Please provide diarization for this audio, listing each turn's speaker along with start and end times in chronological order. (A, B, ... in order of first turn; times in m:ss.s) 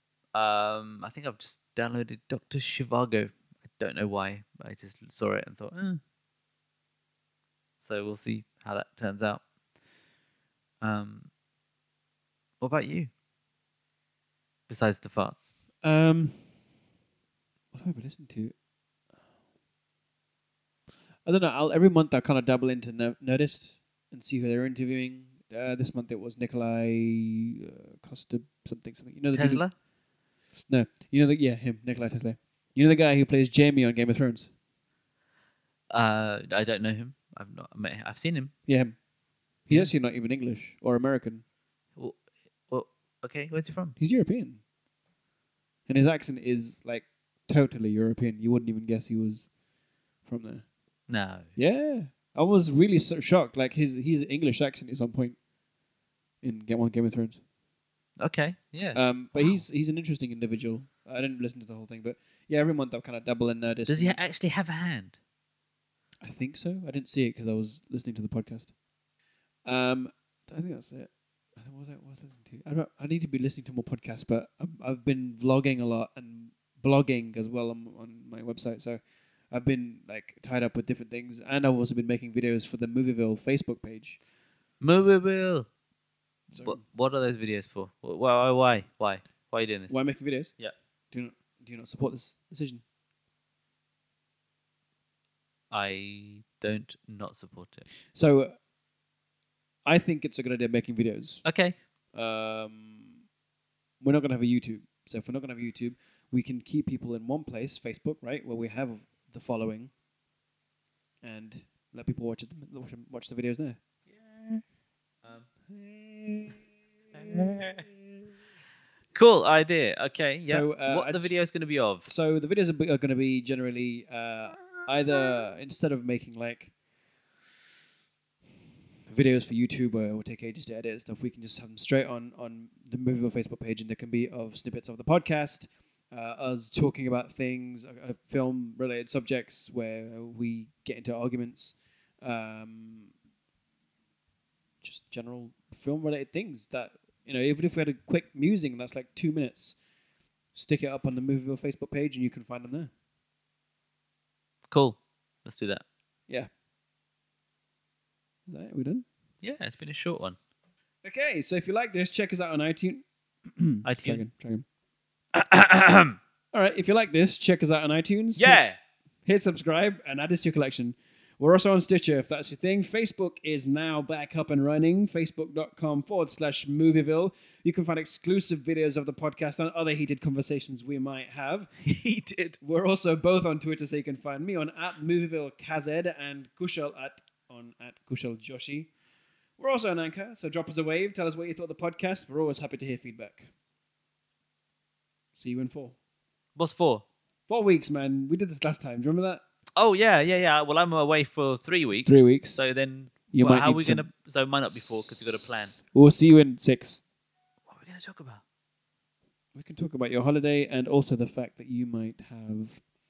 0:00.4-0:06.0 A
0:07.8-0:09.4 A
0:10.8-0:11.3 A
0:12.6-0:13.1 A
0:14.7-0:15.5 A
0:15.8-0:16.5 B
0:17.7-0:18.5 B
0:21.2-0:29.6 B
0:29.3-0:29.7 A
0:30.7-0:34.5 B
0:35.9-0:38.5 A
0:38.7-0:39.0 B
0:39.7-0:41.4 B
0:42.0-0:44.0 A
0:44.0-0:44.6 B
0:45.9-0:49.5 B
0:50.3-0:50.6 B
0:51.1-0:51.5 A
0:51.6-0:55.4 B
0:56.4-0:57.4 B
0:58.2-0:59.6 A
0:58.9-1:04.2 B
1:03.9-1:05.2 A
1:06.2-1:08.7 B
1:09.6-1:24.2 B
1:24.8-1:25.7 A
1:26.5-1:26.8 B
1:26.6-1:30.0 A
1:29.9-1:30.5 B
1:31.1-1:32.8 B
1:35.7-1:37.9 A
1:38.1-1:38.6 B
1:39.9-1:41.4 B
1:41.4-1:41.8 A
1:42.1-1:43.1 B
1:44.0-1:49.9 B
1:51.2-1:53.8 B
1:54.1-1:54.6 A
1:55.2-1:56.6 A
1:57.1-1:57.9 A
1:59.1-2:02.1 A
2:00.4-2:01.3 B
2:02.1-2:06.7 B
2:09.1-2:23.1 B
2:24.8-2:29.8 B
2:30.6-2:32.9 B
2:34.7-2:35.8 A
2:38.5-2:39.0 B
2:39.4-2:40.4 A
2:41.0-2:44.6 B
2:43.8-2:44.2 A
2:45.3-2:46.2 A
2:46.5-2:48.7 B
2:48.4-2:48.8 A
2:49.2-3:01.7 B
3:01.8-3:02.6 A
3:02.6-3:08.9 B
3:09.6-3:13.5 B
3:15.4-3:16.0 B
3:16.6-3:17.0 A
3:17.5-3:19.4 B
3:19.8-3:25.8 A
3:22.1-3:22.6 B
3:23.3-3:24.1 B
3:24.7-3:27.0 B
3:27.7-3:28.4 A
3:29.6-3:32.8 B